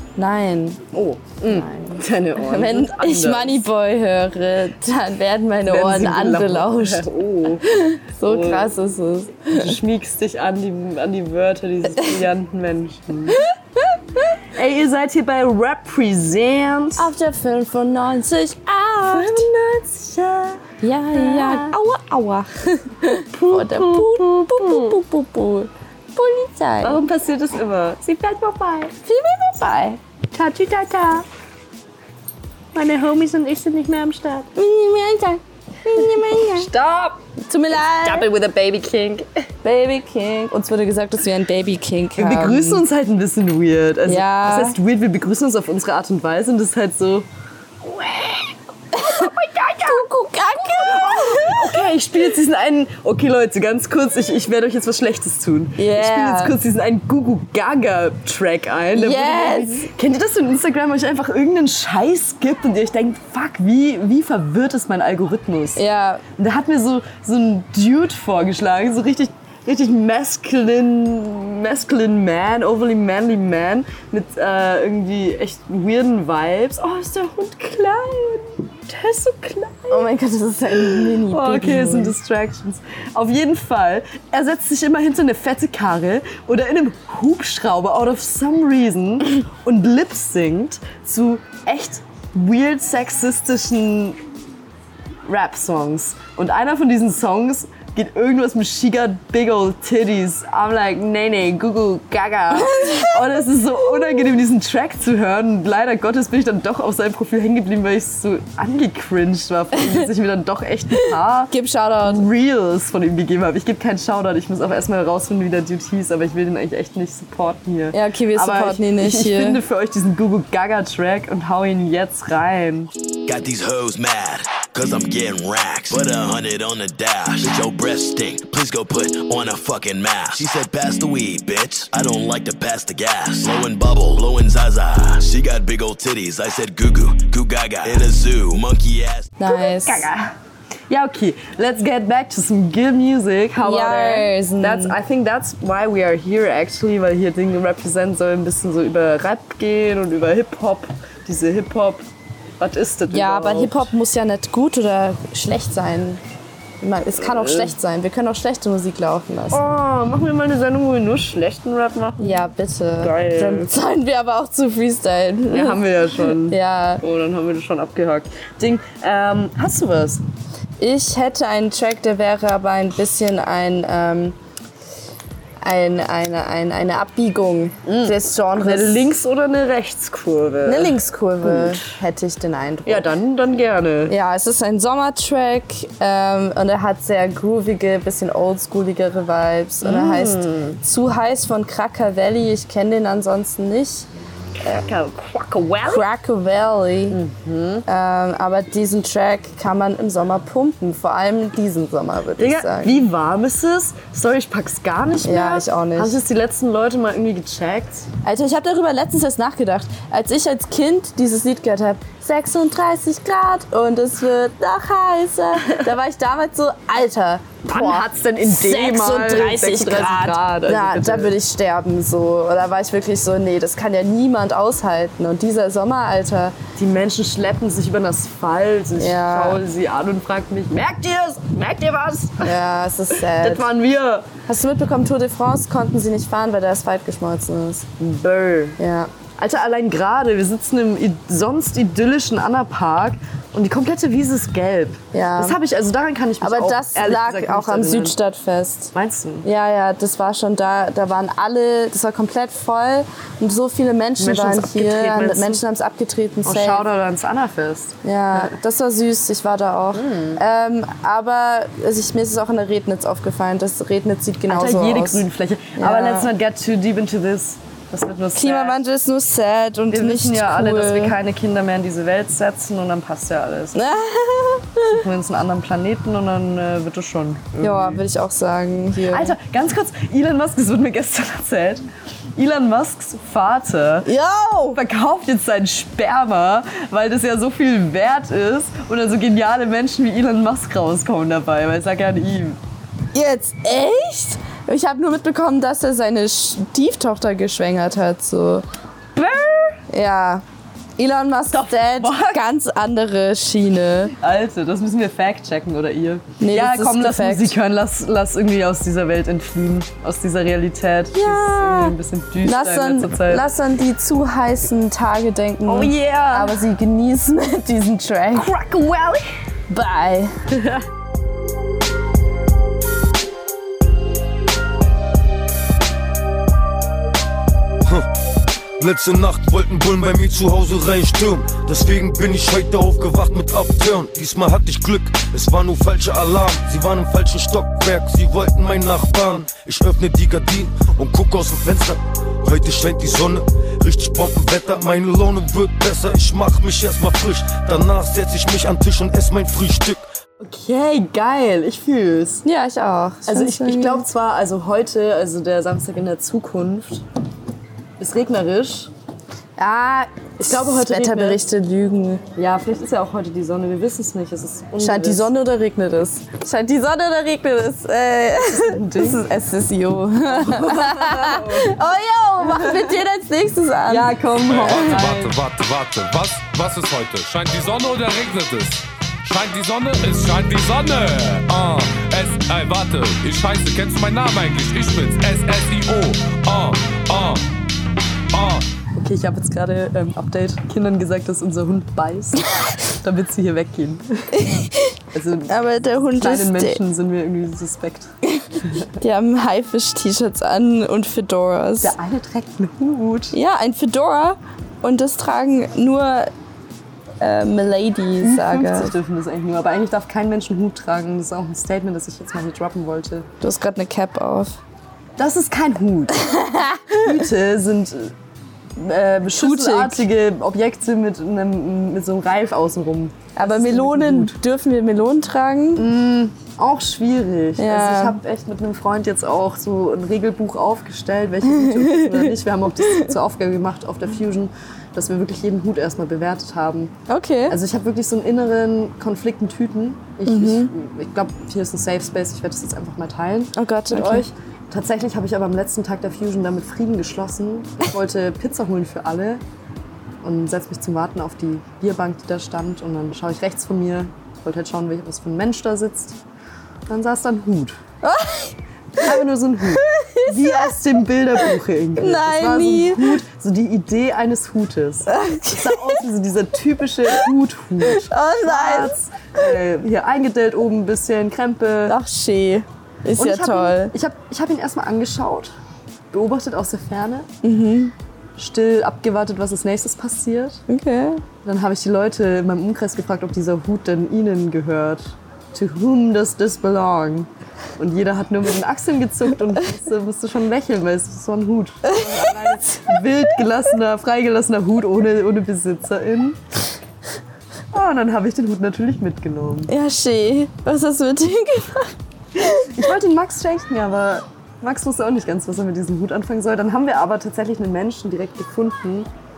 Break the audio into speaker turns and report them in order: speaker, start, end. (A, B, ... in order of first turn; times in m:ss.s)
0:00.2-0:00.9 A
0:00.9-0:03.6 B
0:01.4-0:07.1 A
0:05.6-0:07.6 B
0:07.6-0:09.8 A
0:08.2-0:08.7 B
0:09.5-0:13.4 B
0:14.5-0:17.1 B
0:17.0-0:19.5 A
0:19.1-0:20.6 B
0:20.8-0:27.0 A
0:21.2-0:21.8 B
0:23.3-0:25.0 B
0:26.8-0:28.9 B
0:29.0-0:30.0 A
0:30.3-0:31.3 B
0:32.7-0:34.5 B
0:34.6-0:36.7 A
0:36.0-0:37.2 B
0:37.4-0:38.3 A
0:38.0-0:39.3 B
0:39.6-0:42.8 A
0:42.2-0:47.3 B
0:44.1-0:44.8 A
0:47.8-0:50.0 B
0:49.0-0:49.3 A
0:49.8-0:51.8 A
0:50.7-1:05.8 B
0:55.8-0:56.6 A
0:59.0-0:59.9 A
1:05.8-1:06.2 A
1:06.4-1:20.1 B
1:19.9-1:22.2 A
1:20.7-1:34.2 B
1:35.2-1:51.5 B
1:42.7-1:43.1 A
1:51.5-1:52.2 A
1:52.0-2:02.9 B
1:57.9-1:59.6 A
2:03.3-2:19.3 C
2:19.4-2:20.1 A
2:19.5-2:20.4 B
2:20.9-2:32.1 B
2:23.6-2:25.0 A
2:32.6-2:33.9 B
2:33.1-2:36.2 A
2:36.8-2:39.6 A
2:37.1-2:37.8 B
2:39.5-2:42.5 B
2:42.2-2:45.8 A
2:43.0-2:43.7 B
2:45.5-2:50.2 B
2:46.4-2:47.0 A
2:50.8-2:54.4 A
2:55.6-2:59.1 A
2:57.8-3:01.9 B
3:00.7-3:03.1 A
3:02.8-3:04.1 B
3:04.1-3:14.1 A
3:09.8-3:10.8 B
3:14.6-3:16.1 B
3:15.9-3:17.2 A
3:17.1-3:17.8 B
3:17.9-3:23.0 A
3:22.4-3:28.1 B
3:25.2-3:26.2 A
3:28.2-3:46.6 A
3:37.7-3:41.4 B
3:46.8-3:52.6 B
3:49.0-3:49.6 A
3:52.4-3:53.7 A
3:53.1-3:54.3 B
3:54.5-3:57.9 A
3:58.0-3:58.8 B
3:58.8-3:59.1 A
3:59.4-4:08.2 B
4:05.1-4:05.6 A
4:06.4-4:08.9 A
4:08.9-4:09.5 B
4:09.4-4:16.8 A
4:14.2-4:15.6 B
4:16.4-4:18.5 B
4:18.0-4:25.3 A
4:19.9-4:20.4 B
4:24.5-4:28.8 B
4:25.8-4:26.3 A
4:28.4-4:31.2 A
4:29.9-4:33.9 B
4:33.8-4:35.0 A
4:34.9-4:38.0 B
4:37.6-4:39.4 A
4:39.1-4:41.8 B
4:42.4-4:44.1 B
4:44.0-4:44.8 A
4:44.7-4:52.6 B
4:53.1-4:58.6 A
4:59.2-4:59.8 B
4:59.9-5:00.4 A
5:01.0-5:04.1 A
5:01.5-5:02.5 B
5:04.2-5:13.4 B
5:06.4-5:07.6 A
5:11.1-5:18.5 A
5:15.7-5:16.6 B
5:18.3-5:19.3 B
5:19.7-5:20.4 A
5:20.5-5:20.8 B
5:28.8-5:50.0 D
5:50.4-5:52.4 B
5:52.4-5:54.0 A
5:53.3-5:57.0 B
5:58.0-5:58.9 B
5:59.6-6:02.2 A
6:00.4-6:01.4 B
6:02.4-6:05.3 B
6:04.8-6:14.9 A
6:08.5-6:09.3 B
6:10.3-6:11.8 B
6:12.4-6:13.0 B
6:13.9-6:15.4 B
6:14.5-6:27.5 E
6:28.3-6:28.7 E
6:29.0-6:32.4 B
6:33.0-6:34.2 B
6:34.4-6:34.9 A
6:35.1-6:35.5 B
6:35.5-6:36.8 A
6:36.1-6:38.1 B
6:39.0-6:41.9 A
6:41.8-6:43.4 B
6:43.3-6:46.3 A
6:47.2-6:48.9 A
6:48.2-6:53.3 B
6:53.4-6:54.6 A
6:55.2-6:56.1 B
6:56.3-6:57.0 A
6:56.9-6:58.1 B
6:58.8-7:04.4 B
6:59.3-7:00.1 A
7:03.4-7:05.9 A
7:05.8-7:16.9 B
7:07.6-7:08.2 A
7:11.5-7:13.1 A
7:17.1-7:17.6 A
7:17.5-7:29.4 B
7:20.3-7:20.7 A
7:23.6-7:24.3 A
7:30.2-7:36.2 B
7:36.9-7:37.8 B
7:38.0-7:39.1 A
7:39.0-7:52.0 B
7:39.8-7:40.7 A
7:41.4-7:43.1 A
7:45.1-7:46.0 A
7:47.9-7:49.0 A
7:51.9-7:53.9 A
7:53.2-7:55.5 B
7:56.1-7:57.3 B
7:57.4-7:57.9 A
7:58.4-8:00.6 B
8:00.7-8:01.2 A
8:01.4-8:16.4 B
8:11.9-8:13.0 A
8:17.7-8:19.7 B
8:19.7-8:22.7 A
8:22.6-8:29.1 B